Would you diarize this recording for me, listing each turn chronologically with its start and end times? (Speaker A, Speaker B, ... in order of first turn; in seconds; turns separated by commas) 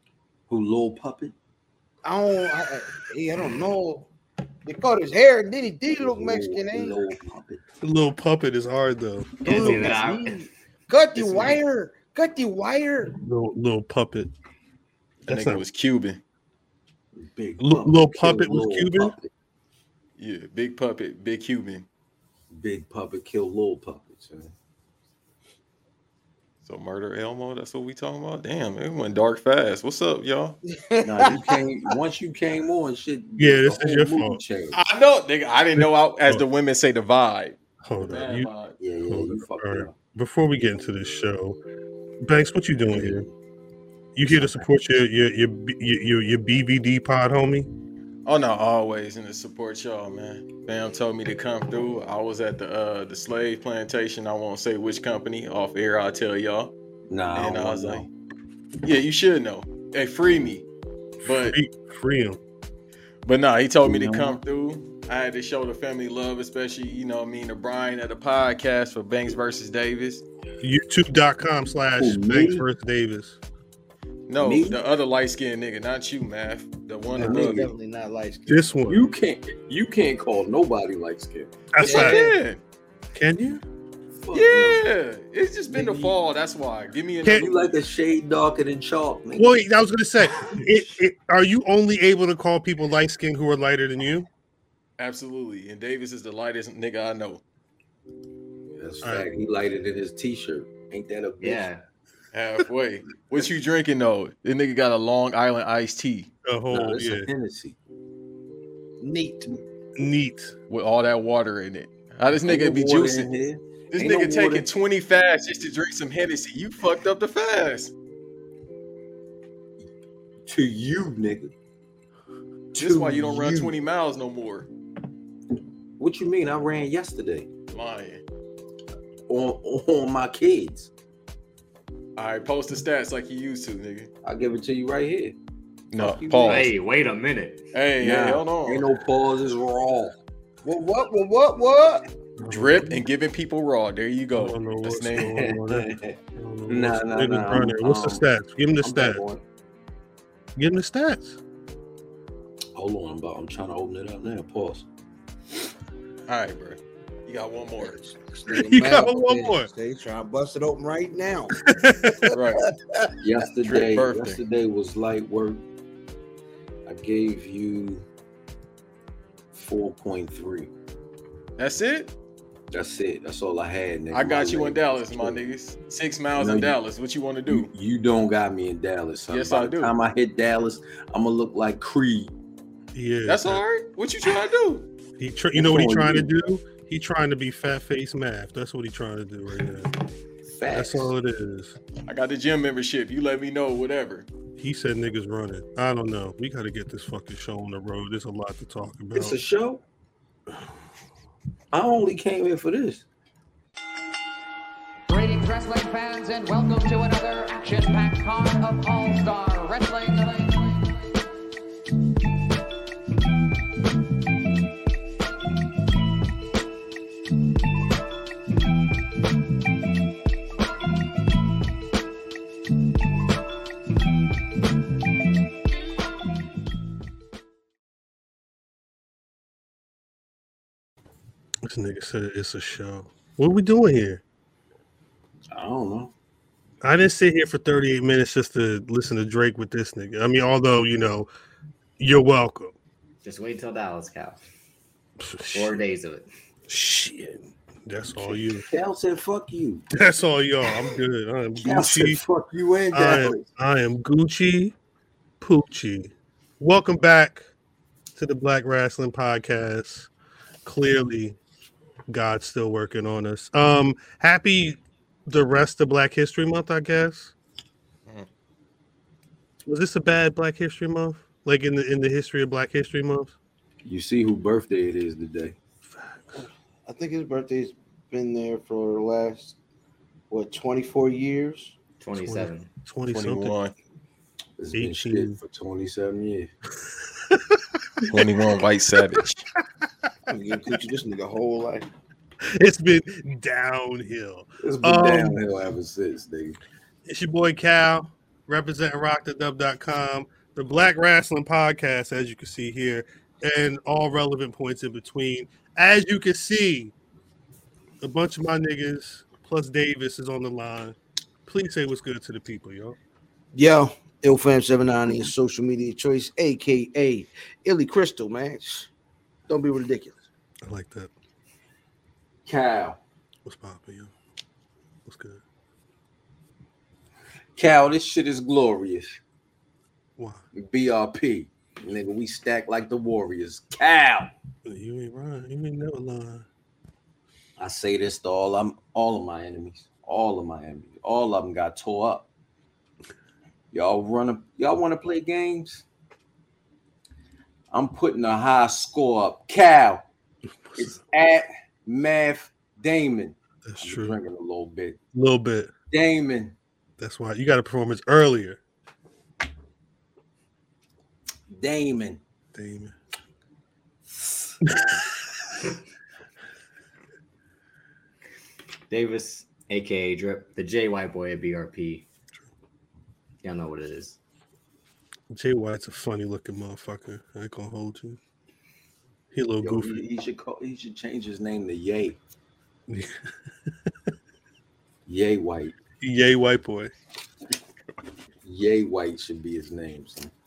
Speaker A: 0.5-1.3, Speaker B: 2.0-4.1, Speaker B: 4.7-6.9, Speaker A: 5.9-7.6, Speaker C: 7.8-10.0, Speaker D: 9.4-10.5, Speaker B: 9.4-13.2, Speaker D: 11.2-11.5, Speaker C: 13.2-14.3, Speaker C: 15.2-15.6, Speaker E: 15.3-16.2, Speaker A: 17.1-19.3, Speaker C: 17.6-19.1, Speaker E: 20.2-21.9, Speaker A: 22.5-24.5, Speaker E: 26.6-30.6, Speaker B: 30.9-31.5, Speaker A: 31.0-34.8, Speaker C: 33.4-34.4, Speaker E: 34.7-38.8, Speaker C: 35.8-36.4, Speaker C: 37.8-38.5, Speaker A: 38.8-39.9, Speaker C: 39.1-41.6, Speaker C: 42.2-43.3, Speaker A: 42.9-43.3, Speaker C: 44.1-47.7, Speaker E: 48.2-56.7, Speaker A: 57.1-58.1, Speaker E: 57.3-58.1, Speaker E: 58.8-60.7, Speaker E: 61.2-61.6, Speaker C: 61.3-62.4, Speaker E: 63.2-70.2, Speaker A: 63.8-64.4, Speaker C: 70.6-73.4, Speaker A: 72.0-72.7, Speaker E: 74.3-77.6, Speaker A: 74.4-74.8, Speaker A: 77.1-77.7, Speaker B: 77.2-78.7, Speaker C: 78.5-79.1, Speaker A: 78.9-81.5, Speaker C: 81.7-82.2, Speaker B: 81.8-82.4, Speaker E: 81.8-82.6, Speaker C: 83.2-83.6, Speaker A: 84.2-84.8, Speaker E: 84.3-87.6, Speaker A: 85.7-86.2, Speaker A: 87.3-89.6, Speaker C: 89.4-94.3, Speaker E: 95.0-97.4, Speaker A: 98.8-101.7, Speaker D: 101.4-101.8, Speaker E: 102.3-106.3, Speaker C: 106.5-107.3, Speaker A: 106.7-107.8, Speaker B: 109.0-109.6, Speaker C: 110.0-110.5, Speaker E: 110.7-113.3, Speaker A: 112.4-114.7, Speaker E: 113.9-117.9, Speaker A: 120.5-121.5, Speaker A: 122.7-123.8, Speaker E: 122.8-124.7, Speaker A: 126.0-127.5, Speaker E: 127.7-128.2, Speaker A: 129.3-130.9, Speaker E: 132.2-134.1, Speaker A: 134.2-135.3, Speaker E: 135.9-136.7, Speaker A: 136.0-136.7, Speaker D: 136.4-137.6, Speaker E: 137.7-138.9, Speaker A: 138.0-140.2, Speaker B: 140.6-142.1, Speaker C: 142.4-143.0, Speaker E: 142.5-145.4, Speaker C: 144.3-149.2, Speaker A: 145.2-146.2, Speaker A: 146.7-148.2, Speaker A: 148.8-149.4, Speaker C: 150.6-151.4, Speaker A: 152.8-154.8, Speaker E: 156.3-158.0, Speaker B: 157.8-161.6, Speaker C: 158.5-159.7, Speaker C: 161.6-162.3, Speaker B: 162.3-163.1, Speaker E: 162.3-162.6, Speaker A: 163.2-165.6, Speaker E: 163.6-164.4, Speaker A: 166.8-168.1, Speaker A: 169.5-170.7, Speaker E: 171.6-172.1, Speaker A: 172.7-175.4, Speaker E: 174.1-177.7, Speaker A: 176.3-176.8, Speaker A: 177.5-182.3, Speaker E: 179.3-179.9, Speaker C: 182.9-183.6, Speaker E: 183.2-184.9, Speaker C: 185.2-189.9, Speaker A: 185.5-186.3, Speaker A: 190.5-191.1, Speaker C: 190.7-191.8, Speaker E: 192.1-194.3, Speaker C: 194.6-199.4, Speaker A: 199.1-199.8, Speaker A: 201.7-203.1, Speaker F: 205.1-210.8, Speaker C: 231.7-234.2, Speaker A: 235.5-236.1, Speaker C: 236.8-241.3, Speaker C: 242.0-242.7, Speaker D: 243.2-244.4, Speaker C: 245.2-245.8, Speaker D: 245.5-246.3, Speaker C: 246.7-248.7, Speaker A: 248.7-249.8, Speaker C: 249.9-252.2, Speaker A: 251.6-253.4, Speaker C: 252.9-254.7, Speaker C: 255.4-257.4, Speaker C: 258.2-260.1, Speaker C: 260.6-261.4, Speaker C: 262.1-267.3, Speaker C: 269.7-273.4, Speaker A: 273.8-275.6, Speaker B: 276.4-279.6, Speaker B: 280.3-281.8, Speaker D: 282.0-282.7, Speaker C: 282.1-283.6, Speaker E: 283.1-283.7, Speaker A: 284.6-286.5, Speaker C: 284.7-285.4, Speaker E: 288.1-289.4, Speaker B: 290.3-291.9, Speaker C: 292.6-295.4, Speaker A: 294.6-296.6, Speaker C: 297.1-306.9, Speaker C: 308.0-313.0, Speaker B: 313.5-318.9, Speaker B: 319.5-320.2, Speaker C: 320.6-321.1, Speaker A: 322.4-323.0, Speaker C: 323.4-324.1, Speaker C: 325.1-325.4, Speaker A: 327.6-329.2, Speaker C: 330.2-330.4, Speaker A: 330.6-334.3, Speaker C: 334.7-336.4, Speaker A: 337.6-342.3, Speaker A: 343.7-345.9, Speaker A: 347.7-350.1, Speaker C: 350.7-350.9, Speaker A: 350.8-355.0, Speaker C: 353.7-354.2, Speaker C: 355.1-355.7, Speaker A: 355.9-356.6, Speaker C: 357.0-358.6, Speaker A: 361.5-362.2, Speaker C: 362.5-362.9, Speaker C: 364.7-364.9, Speaker D: 368.9-372.1, Speaker D: 373.4-374.2, Speaker C: 375.3-378.2, Speaker C: 379.3-380.0, Speaker A: 379.6-382.2, Speaker C: 382.9-383.2, Speaker A: 385.1-385.8, Speaker C: 386.0-386.9, Speaker A: 388.4-390.3